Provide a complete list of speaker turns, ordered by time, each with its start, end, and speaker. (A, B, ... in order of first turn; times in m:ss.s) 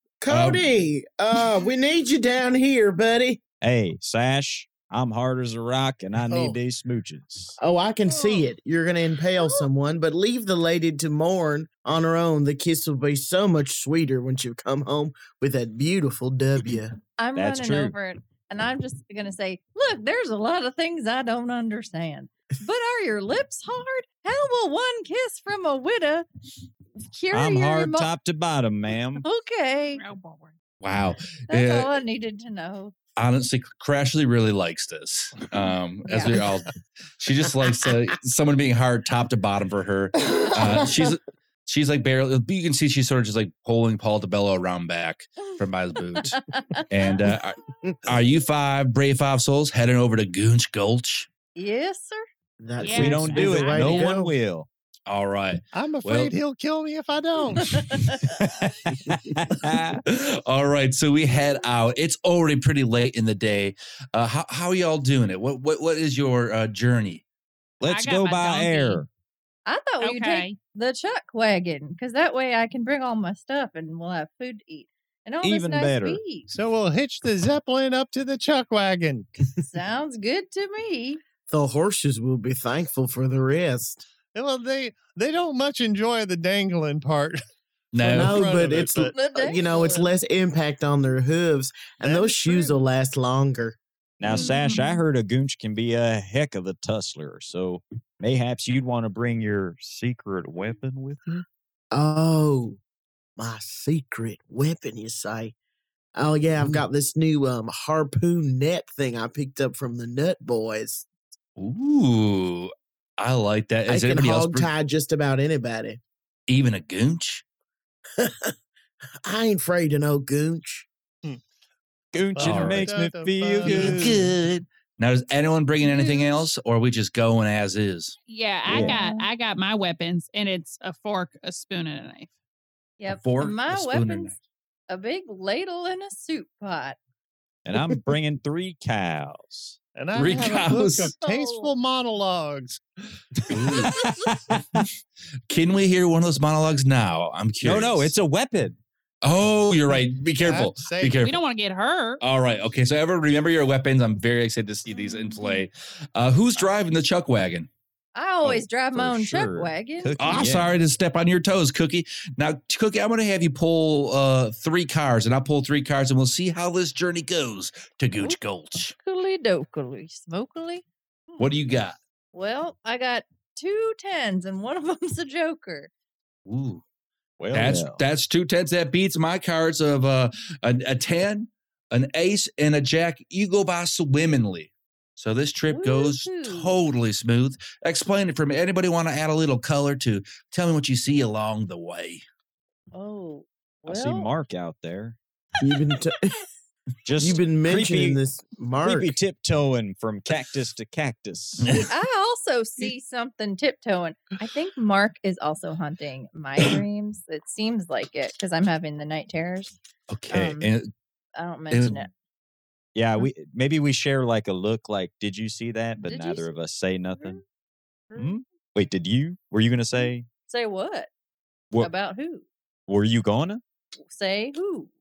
0:00.2-0:03.4 A
0:00.3-0:00.7 B
0:03.6-0:07.6 C
0:07.6-0:17.0 A
0:08.1-0:08.4 D
0:09.4-0:09.7 D
0:17.2-0:26.2 D
0:17.3-0:17.9 C
0:27.1-0:28.1 D
0:27.3-0:29.2 C
0:29.2-0:30.0 D
0:29.9-0:30.6 E
0:30.8-0:32.0 B
0:31.5-0:32.9 D
0:33.2-0:51.3 B
0:36.1-0:36.4 D
0:40.3-0:40.7 A
0:46.3-0:46.8 D
0:51.6-0:52.2 D
0:52.6-0:54.1 A
0:52.8-0:54.1 E
0:52.8-0:54.7 C
0:53.8-0:54.3 F
0:55.1-0:56.3 B
0:55.7-0:57.8 F
0:57.6-0:57.9 B
0:57.9-0:58.2 D
0:58.2-1:00.0 C
1:00.0-1:07.2 B
1:07.8-1:09.1 C
1:07.8-1:09.0 E
1:09.6-1:16.5 D
1:10.0-1:10.6 E
1:15.4-1:16.2 C
1:16.5-1:19.3 F
1:19.6-1:21.2 D
1:21.5-1:24.0 A
1:24.3-1:27.4 F
1:27.9-1:28.5 B
1:28.0-1:29.2 F
1:28.0-1:33.8 A
1:29.1-1:30.1 D
1:32.0-1:32.7 F
1:34.2-1:41.4 C
1:34.3-1:34.9 D
1:41.9-1:42.8 A
1:43.4-1:45.5 A
1:46.1-1:51.1 A
1:51.6-1:54.7 B
1:53.9-1:56.0 A
1:56.5-1:57.4 B
1:58.2-1:58.5 A
1:59.2-2:00.9 A
2:02.1-2:04.2 C
2:02.3-2:04.3 F
2:02.4-2:02.9 B
2:03.6-2:08.1 B
2:05.8-2:06.5 D
2:08.3-2:12.3 E
2:08.7-2:09.0 C
2:08.7-2:09.2 D
2:13.0-2:14.3 D
2:13.1-2:14.4 B
2:14.9-2:17.0 D
2:17.6-2:19.8 C
2:19.9-2:22.8 F
2:20.1-2:21.1 B
2:20.7-2:21.7 D
2:23.4-2:24.8 C
2:23.5-2:24.1 B
2:23.7-2:24.3 D
2:25.5-2:28.1 B
2:27.6-2:28.8 C
2:29.2-2:31.4 B
2:30.4-2:31.2 F
2:31.2-2:32.2 E
2:32.2-2:37.7 B
2:34.9-2:35.6 D
2:38.1-2:40.5 D
2:38.4-2:40.8 C
2:40.2-2:48.9 B
2:49.0-2:51.5 D
2:51.4-2:52.0 B
2:52.3-2:55.9 D
2:56.4-2:56.8 B
2:57.4-2:58.0 C
2:57.5-3:12.2 B
3:05.7-3:06.8 D
3:12.9-3:14.3 D
3:13.8-3:15.2 C
3:15.6-3:16.4 A
3:17.0-3:18.2 C
3:17.2-3:19.2 A
3:18.8-3:21.7 C
3:21.6-3:21.9 B
3:21.8-3:29.8 D
3:30.1-3:30.9 B
3:30.3-3:30.7 D
3:31.4-3:32.1 D
3:31.7-3:32.0 B
3:32.9-3:37.4 C
3:36.0-3:36.5 D
3:37.2-3:37.4 D
3:38.2-3:40.3 C
3:40.5-3:41.1 D
3:41.8-3:42.4 D
3:42.9-3:43.6 C
3:44.0-3:44.9 D